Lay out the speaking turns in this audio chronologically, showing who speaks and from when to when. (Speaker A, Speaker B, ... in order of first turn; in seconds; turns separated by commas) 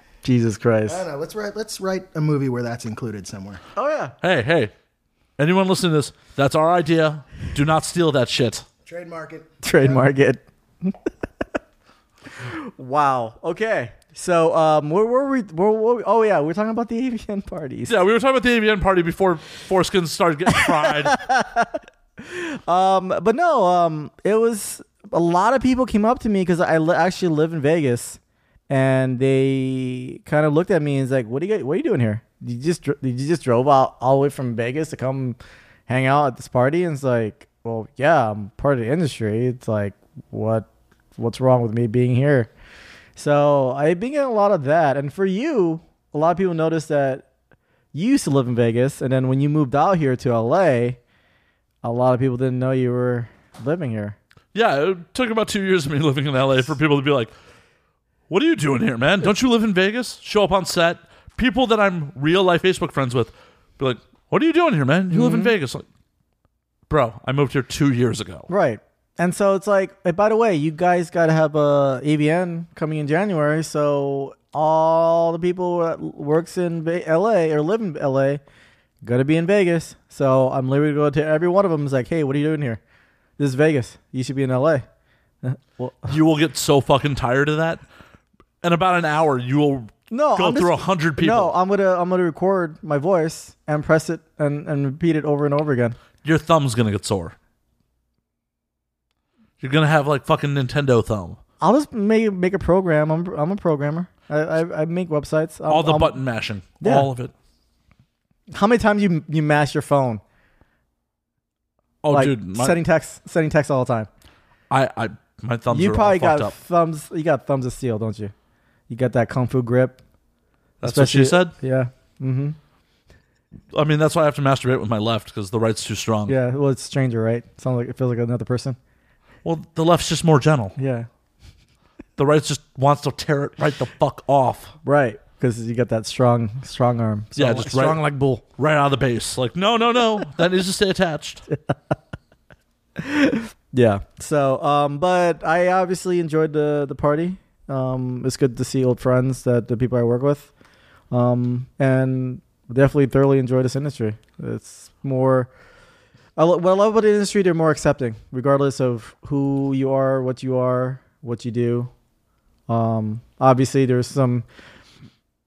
Speaker A: 0.2-1.0, Speaker B: 0.9-3.6, Speaker A: 3.8-4.2, Speaker C: 4.2-4.7, Speaker C: 5.4-8.7, Speaker B: 8.8-10.1, Speaker A: 9.6-11.0, Speaker A: 12.4-18.0, Speaker C: 17.9-21.2, Speaker A: 20.5-42.5, Speaker A: 43.2-47.3, Speaker A: 47.9-51.0, Speaker A: 51.8-54.2, Speaker C: 54.5-57.3, Speaker C: 58.3-65.9, Speaker A: 65.1-65.5, Speaker C: 66.9-68.5, Speaker A: 68.5-78.4, Speaker A: 79.0-82.8, Speaker A: 83.4-84.8, Speaker A: 85.4-86.2, Speaker C: 86.1-87.8, Speaker C: 88.6-91.5, Speaker A: 90.1-96.0, Speaker C: 96.2-97.4, Speaker C: 99.6-101.4, Speaker A: 101.6-106.2, Speaker C: 105.7-107.3, Speaker A: 106.8-107.1, Speaker A: 108.5-110.2, Speaker C: 112.0-112.8, Speaker A: 112.1-114.1, Speaker C: 114.7-116.5, Speaker A: 115.7-118.3, Speaker A: 118.9-120.0, Speaker C: 120.8-121.5, Speaker A: 120.8-122.6, Speaker C: 123.7-126.3, Speaker A: 126.3-128.8, Speaker C: 129.4-130.8, Speaker A: 130.8-131.1, Speaker C: 132.2-134.8, Speaker A: 134.8-138.4, Speaker C: 137.4-138.0, Speaker C: 138.6-141.4, Speaker A: 143.0-150.5, Speaker A: 151.1-155.5, Speaker A: 156.4-161.9, Speaker A: 162.7-164.4